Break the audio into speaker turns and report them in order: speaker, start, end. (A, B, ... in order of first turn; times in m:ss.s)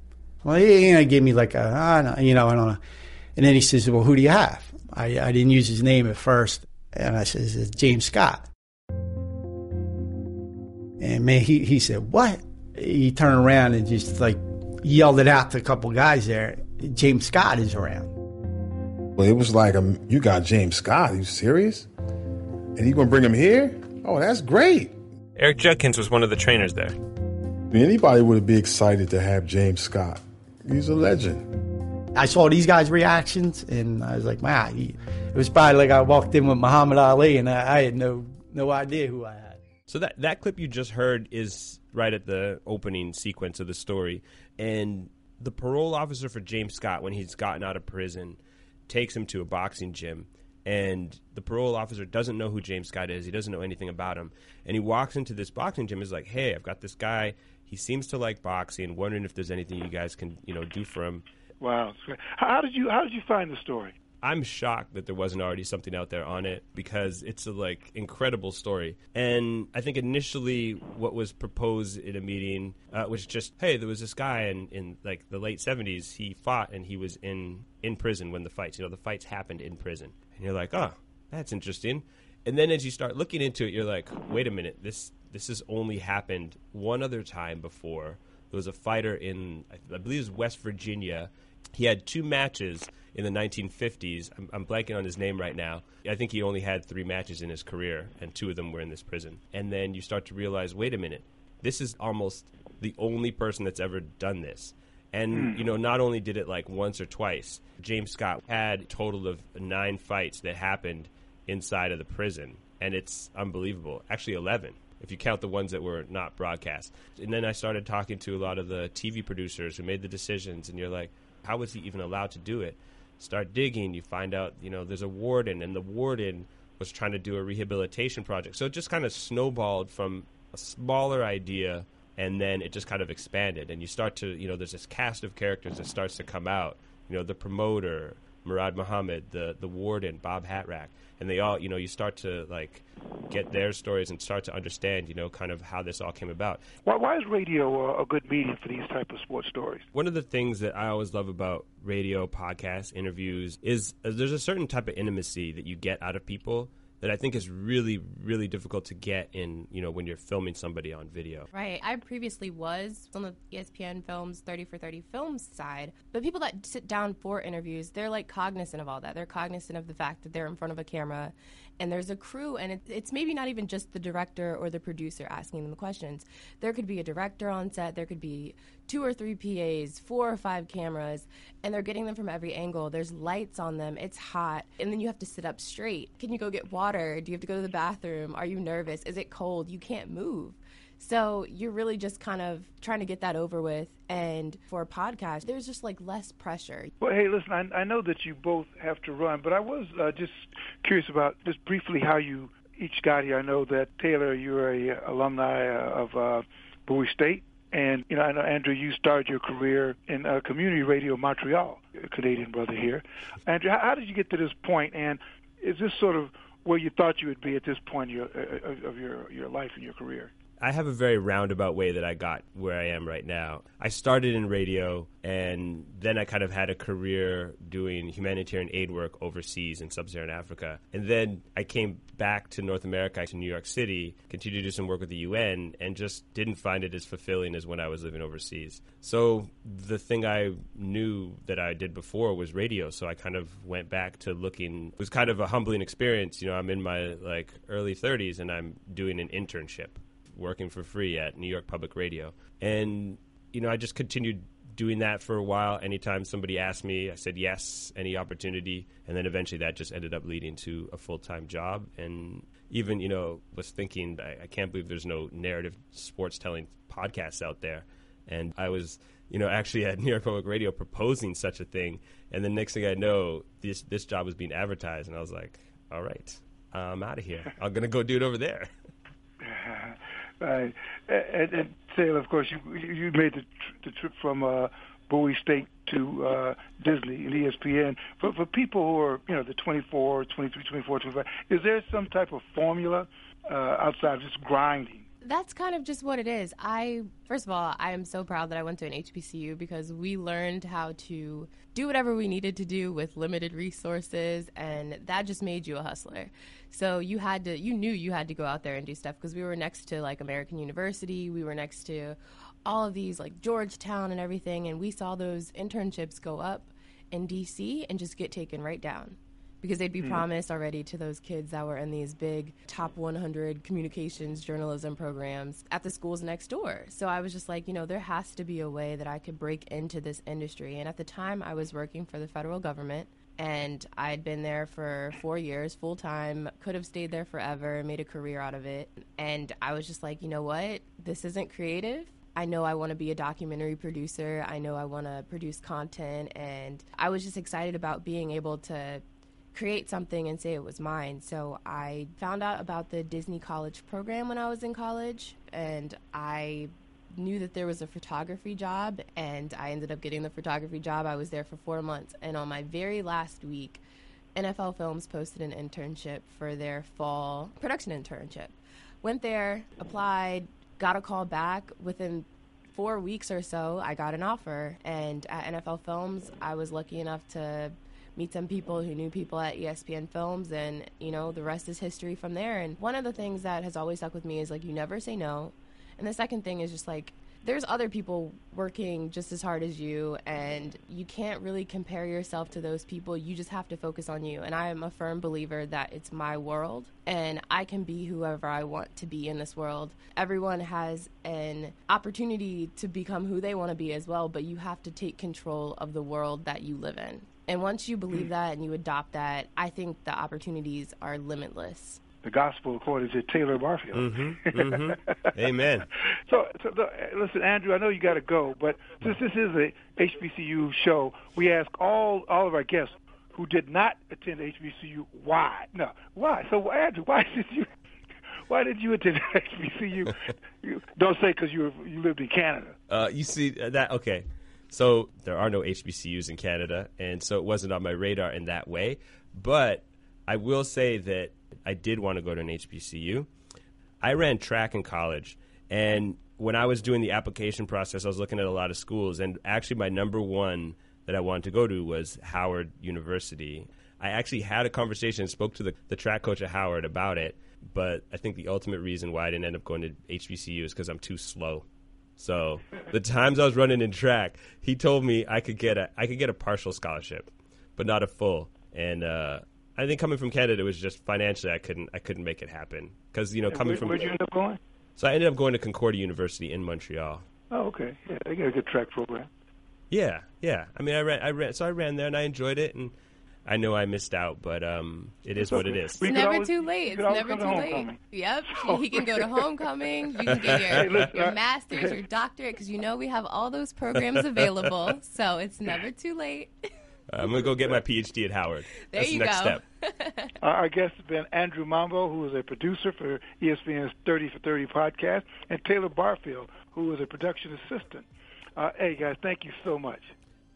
0:00.4-0:02.8 A
0:03.4-0:08.5 A
0:11.0-0:18.1 A
0:19.2-0:21.9 B
0:22.8-0:24.9 B
0:25.4-0:26.9 C
0:27.7-0:31.4 B
0:32.2-0:39.6 A
0:39.9-1:01.2 C
1:01.6-1:03.9 D
1:04.2-2:26.6 C
1:45.3-1:45.6 D
2:26.8-2:29.8 D
2:29.9-2:41.5 C
2:41.5-3:16.9 E
3:17.0-3:40.3 D
3:40.6-4:38.7 C
4:39.4-4:55.1 D
4:55.2-6:03.8 E
6:04.3-6:52.0 E
6:52.2-6:55.2 D
6:53.9-6:55.9 C
6:56.3-7:07.7 D
7:08.5-7:12.8 D
7:12.9-7:23.3 C
7:24.0-7:41.6 C
7:42.2-7:54.1 C
7:53.5-7:54.6 D
7:55.0-7:57.2 C
7:57.5-7:59.3 D
7:59.9-8:02.9 C
8:03.4-8:06.0 C
8:05.4-8:09.4 D
8:06.0-8:16.5 E
8:10.4-8:10.9 C
8:10.6-8:12.0 D
8:17.1-8:19.6 C
8:17.3-8:17.7 D
8:18.8-8:20.3 E
8:20.4-8:28.0 D
8:28.6-8:30.1 D